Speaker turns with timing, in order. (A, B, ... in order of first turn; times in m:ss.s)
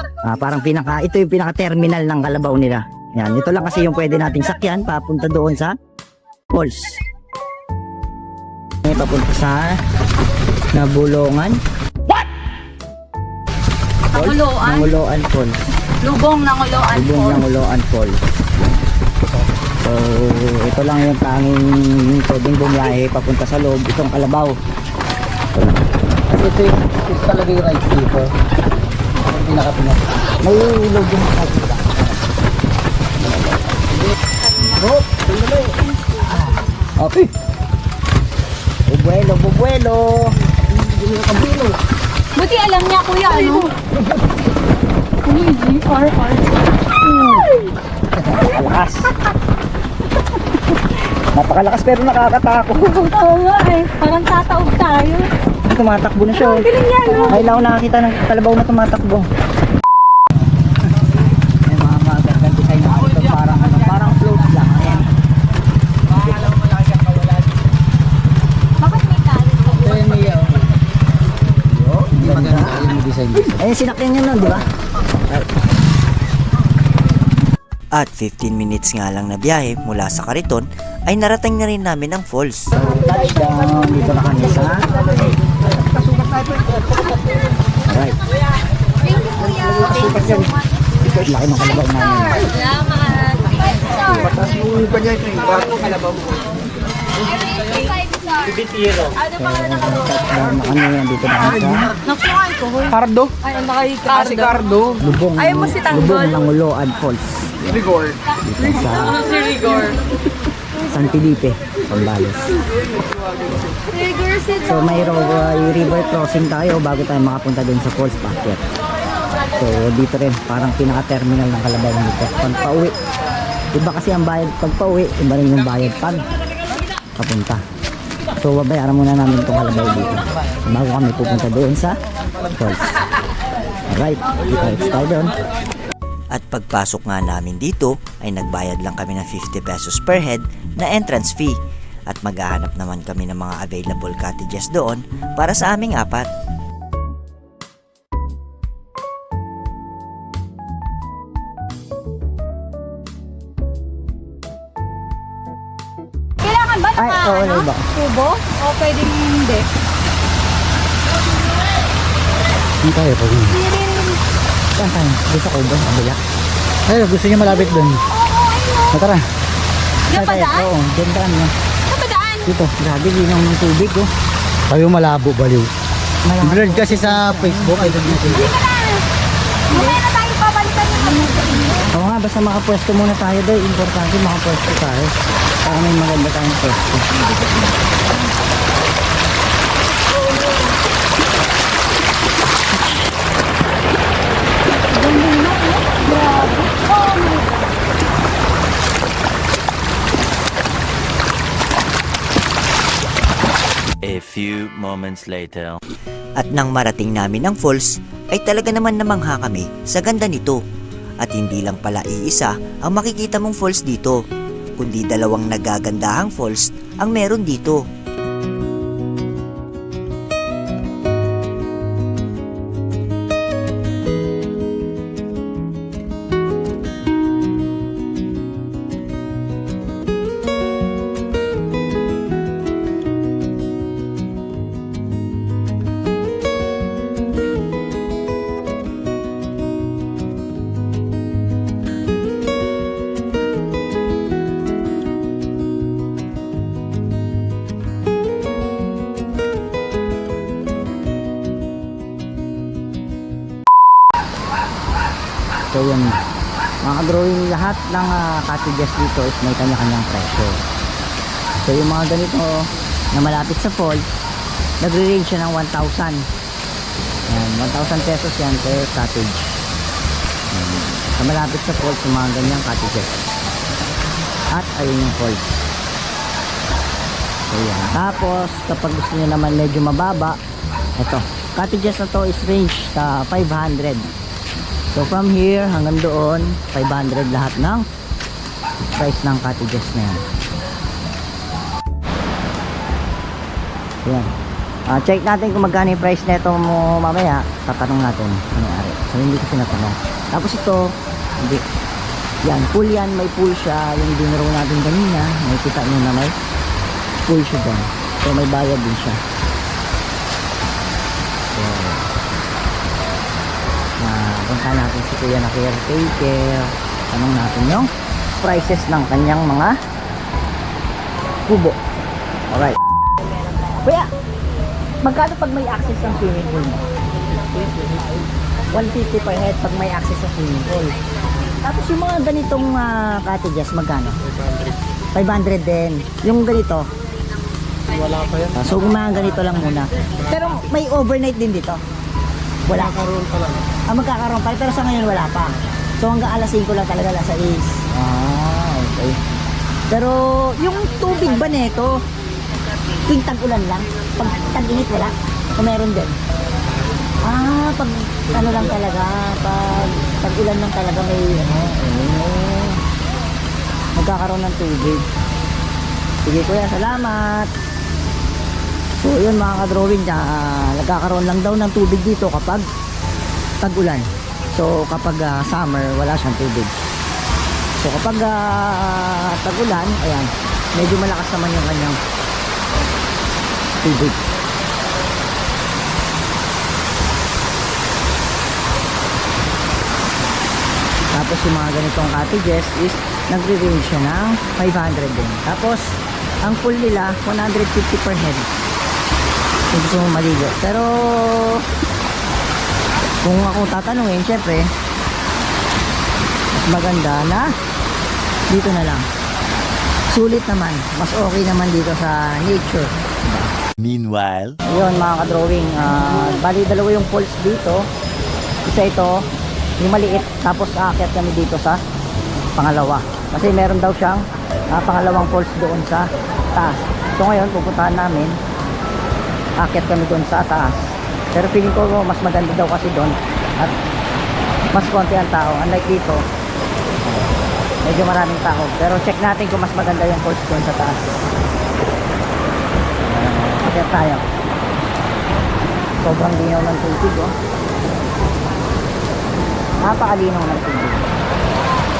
0:00.2-0:05.7 A
0:06.5-0:07.0 A
0:08.8-0:09.8 A
0:10.7-0:11.6 A
0:14.1-0:15.6 A
0:14.1-0:14.9 B
0:16.0-0:17.4 B
0:16.9-0:18.2 A
0:19.8-0:24.6 A
0:25.5-0:25.8 A
0:26.3-0:28.3 C
0:29.3-0:30.2 C
0:30.4-0:32.1 A
0:34.9-0:35.7 C
0:36.9-0:37.3 A
0:38.8-0:41.8 A
0:42.3-0:43.7 B
0:45.2-0:46.5 B
0:47.0-0:47.4 A
0:48.1-0:49.1 A
0:51.3-0:53.3 A
0:53.1-0:55.3 B
0:55.6-0:59.2 A
0:56.4-0:57.4 B
1:01.6-1:05.1 A
1:06.1-1:06.5 A
1:08.8-1:09.8 B
1:09.8-1:10.6 C
1:11.7-1:12.9 A
1:12.2-1:13.6 C
1:13.5-1:14.7 A
1:17.9-1:22.7 D
1:22.7-1:26.6 A
1:27.8-1:28.2 A
1:29.3-1:29.8 B
1:29.5-1:30.5 A
1:31.0-1:32.6 A
1:33.8-1:34.9 A
1:35.1-1:35.5 C
1:37.5-1:38.5 B
1:39.3-1:41.9 A
1:42.1-1:44.7 B
1:45.0-1:47.8 A
1:45.6-1:46.0 B
1:48.4-1:49.2 A
1:49.5-1:49.9 B
1:50.9-1:52.4 A
1:54.0-1:54.4 B
1:54.6-1:58.6 A
1:59.6-2:02.9 A
2:03.7-2:06.2 A
2:07.2-2:07.6 A
2:08.4-2:12.0 A
2:12.5-2:12.9 A
2:13.9-2:15.3 A
2:16.3-2:26.3 D
2:36.4-2:39.7 B
2:37.0-2:37.9 A
2:42.8-2:43.6 C
2:43.5-2:44.2 B
2:44.8-2:46.2 A
2:46.8-2:48.0 C
2:47.4-2:49.0 B
2:48.9-2:49.2 C
2:50.1-2:50.7 B
2:50.1-2:51.5 A
2:51.9-2:52.5 B
2:52.5-2:54.1 A
2:54.7-2:55.7 C
2:56.2-2:58.1 A
2:56.4-2:58.5 C
2:58.3-2:59.0 B
2:59.7-3:01.8 B
3:01.9-3:07.2 A
3:14.9-3:17.7 B
3:24.0-3:25.8 E
3:26.4-3:30.6 D
3:31.2-3:34.2 D
3:34.8-3:37.8 D
4:15.7-4:16.2 A
4:16.8-4:20.6 A
4:21.6-4:24.0 A
4:24.8-4:26.2 A
4:27.3-4:29.5 A
4:30.5-4:33.2 A
4:34.5-4:35.5 A
4:37.5-4:40.4 A
4:41.0-4:44.1 A
4:44.9-4:47.8 A
4:48.9-4:50.2 A
4:54.0-4:54.3 A
4:54.9-5:00.8 A
5:02.4-5:06.3 A
5:07.2-5:09.2 A
5:11.5-5:12.0 A
5:14.0-5:17.9 A
5:18.4-5:19.8 A
5:21.4-5:21.8 A
5:22.5-5:22.8 A
5:23.8-5:24.1 A
5:25.0-5:26.8 A
5:28.7-5:30.9 A
5:31.6-5:34.2 A
5:35.1-5:36.9 A
5:38.5-5:41.8 A
5:42.6-5:43.0 A
5:43.9-5:49.2 A
5:49.9-5:52.0 A
5:53.0-5:56.2 A
5:57.2-6:02.8 A
6:03.9-6:05.0 A
6:06.2-6:07.5 A
6:09.0-6:12.7 A
6:13.6-6:16.8 A
6:17.8-6:22.0 A
6:23.8-6:24.2 A
6:31.1-6:38.5 A
6:39.7-6:41.6 A
6:43.2-6:44.7 A
6:46.5-6:47.5 A
6:48.5-6:49.0 A
6:50.1-6:53.5 A
6:53.8-6:54.6 E
6:54.7-6:57.8 A
6:58.7-6:59.2 A
6:59.8-7:01.8 A
7:02.6-7:08.4 A
7:09.6-7:13.7 A
7:14.7-7:16.2 A
7:17.0-7:17.3 A
7:17.8-7:21.2 A
7:23.0-7:24.2 A
7:26.0-7:27.3 A
7:29.8-7:31.1 A